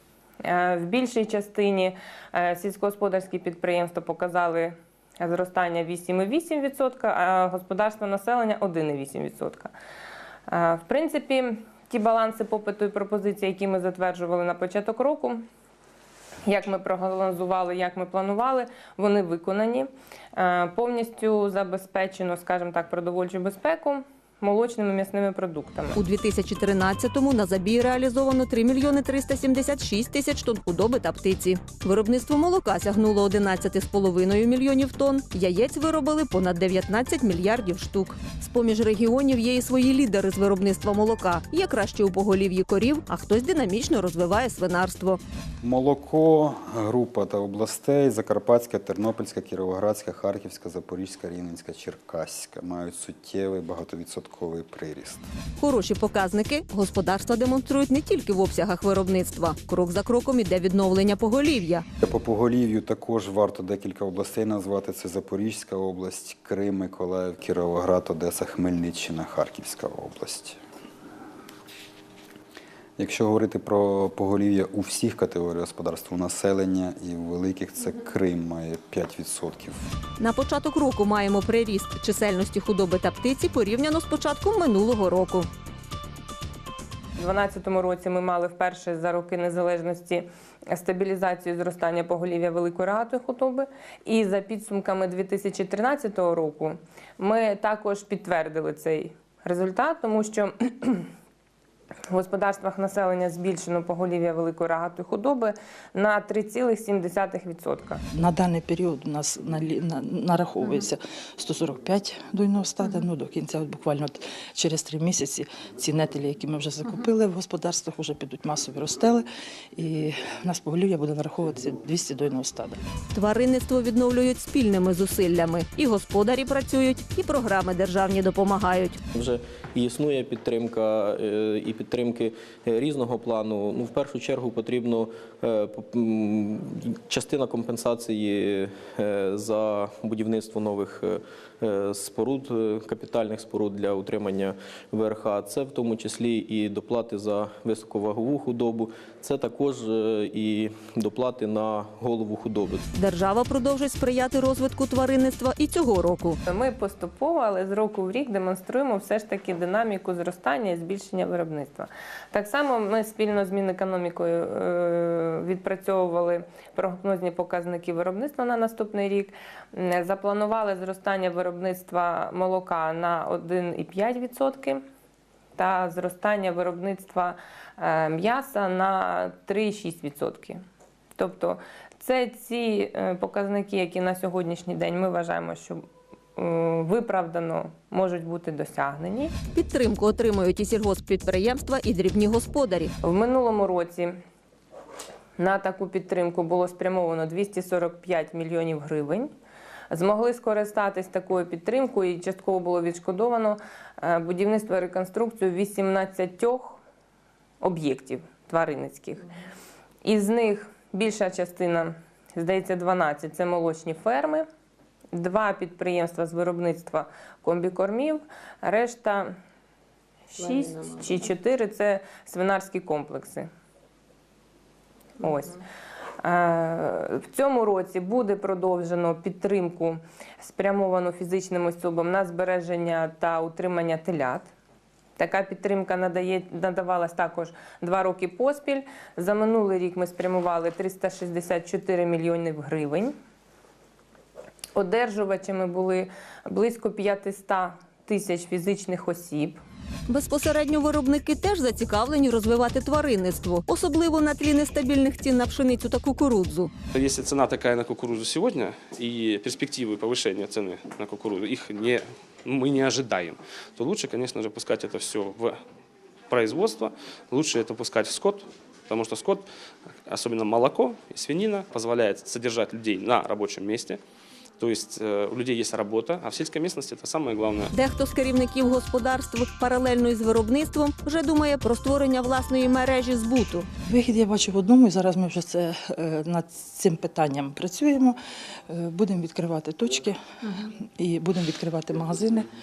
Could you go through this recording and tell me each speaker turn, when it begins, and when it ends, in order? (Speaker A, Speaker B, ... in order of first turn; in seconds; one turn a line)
Speaker A: 0.4-9.7
Speaker A: 10.5-15.4
Speaker A: 16.5-26.0
Speaker B: 25.9-45.2
Speaker C: 45.6-55.3
Speaker B: 55.6-61.9
Speaker C: 62.0-70.6
Speaker C: 73.0-79.9
Speaker B: 80.2-85.5
Speaker A: 87.2-101.1
Speaker A: 102.1-108.0
Speaker D: 108.1-122.8
Speaker B: 123.1-129.0
Speaker E: 129.1-152.8
Speaker B: 152.9-156.4
Speaker A: 156.5-174.8
Speaker A: 175.6-180.6
Speaker A: 181.2-185.8
Speaker A: 186.4-189.3
Speaker B: 189.5-192.9
Speaker A: 193.0-194.2
Speaker A: 195.4-199.3
Speaker A: 199.9-206.8
Speaker A: 207.6-209.3
Speaker A: 210.1-214.4
Speaker A: 215.1-219.3
Speaker A: 220.3-223.5
Speaker A: 225.2-225.6
Speaker A: 226.2-234.5
Speaker A: 235.2-243.1
Speaker A: 244.8-249.6
Speaker B: 250.1-256.7
Speaker F: 256.9-265.6
Speaker F: 266.3-269.5
Speaker F: 270.1-274.0
Speaker F: 274.6-277.7
Speaker B: 277.7-283.7
Speaker D: 283.9-288.2
Speaker D: 288.7-292.5